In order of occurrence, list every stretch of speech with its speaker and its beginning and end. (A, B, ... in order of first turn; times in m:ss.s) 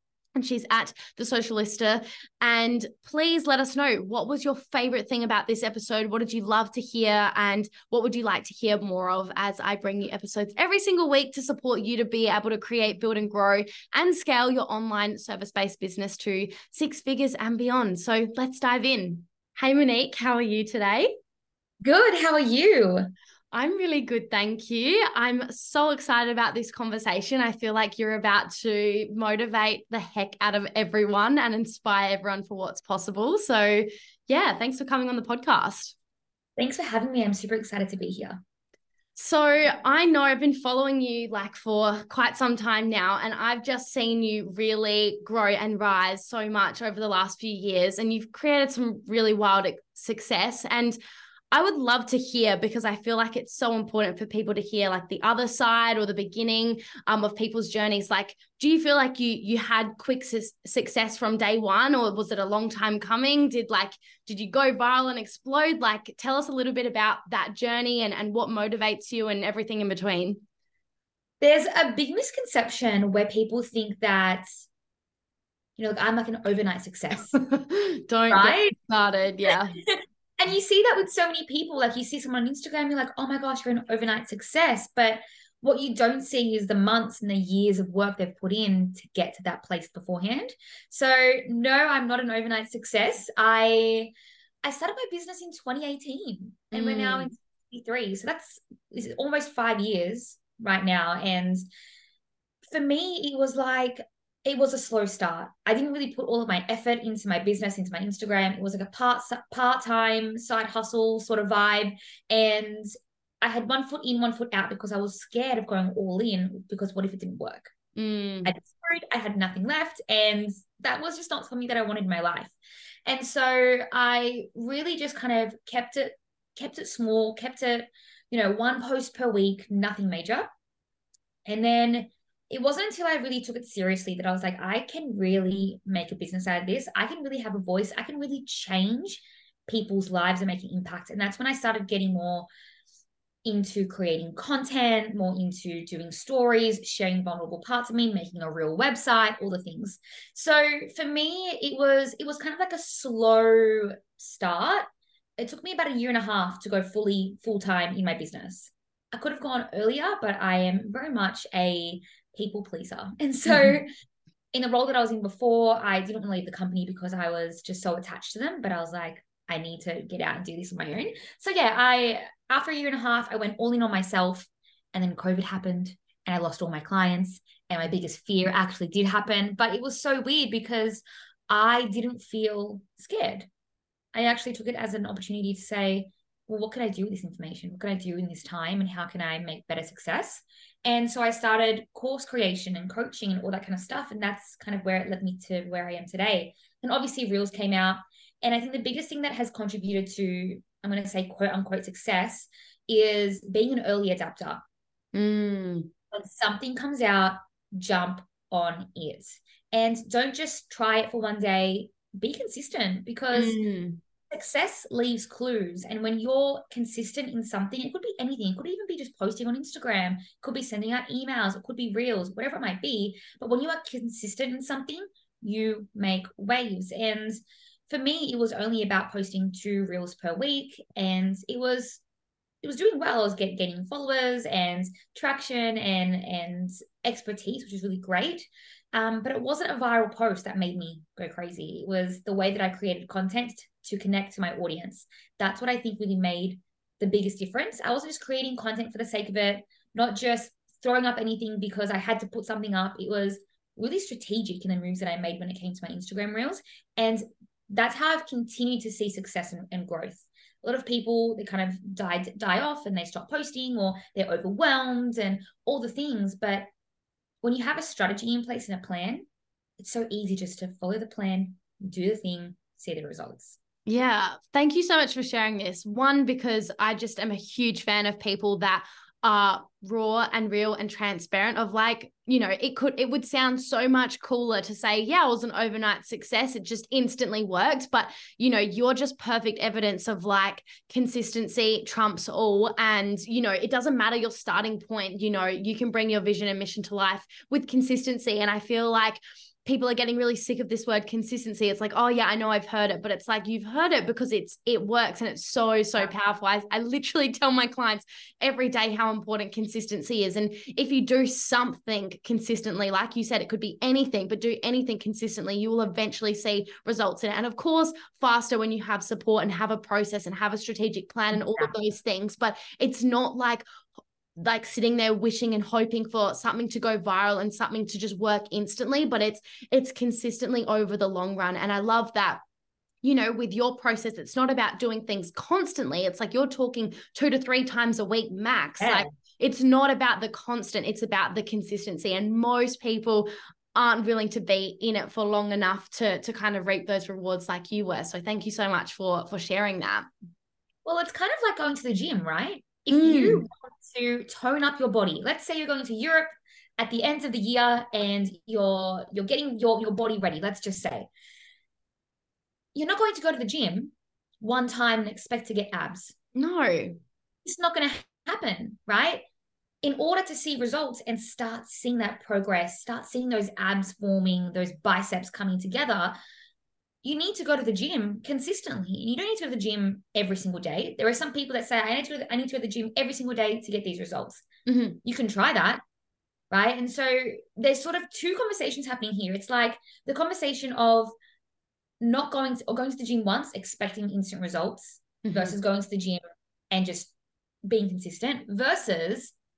0:00.4-0:21.2 A
0:21.8-0:23.1 B
0:23.5-0:36.0 A
0:36.6-0:38.4 B
0:39.2-0:51.0 A
0:51.5-1:10.4 A
1:11.4-1:14.5 B
1:15.8-1:17.4 B
1:17.3-1:19.8 A
1:18.3-1:18.8 B
1:19.5-1:34.1 B
1:34.6-1:41.6 B
1:36.7-1:37.3 A
1:42.6-1:52.9 B
1:53.4-1:57.7 B
1:58.0-1:58.6 A
1:58.4-2:02.6 B
2:03.1-2:10.5 B
2:11.5-2:22.5 B
2:23.4-2:43.9 B
2:43.5-2:43.8 A
2:44.5-3:03.5 B
3:04.1-3:24.6 B
3:25.1-3:25.9 A
3:26.1-3:33.6 B
3:33.3-3:34.0 A
3:34.3-3:52.0 B
3:52.6-4:26.7 B
4:27.4-4:29.3 B
4:29.8-4:33.6 B
4:33.9-5:23.6 A
5:21.3-5:21.7 B
5:24.4-5:32.4 A
5:33.0-5:50.1 A
5:38.8-5:39.1 B
5:50.8-6:01.1 B
5:52.9-5:53.4 A
6:02.8-6:06.2 B
6:06.4-6:07.0 A
6:07.4-6:09.2 B
6:09.8-6:16.2 B
6:17.0-6:24.5 B
6:24.7-6:25.0 A
6:25.0-6:25.8 B
6:26.5-6:31.1 B
6:32.0-6:37.1 B
6:35.2-6:35.6 A
6:37.7-6:39.4 B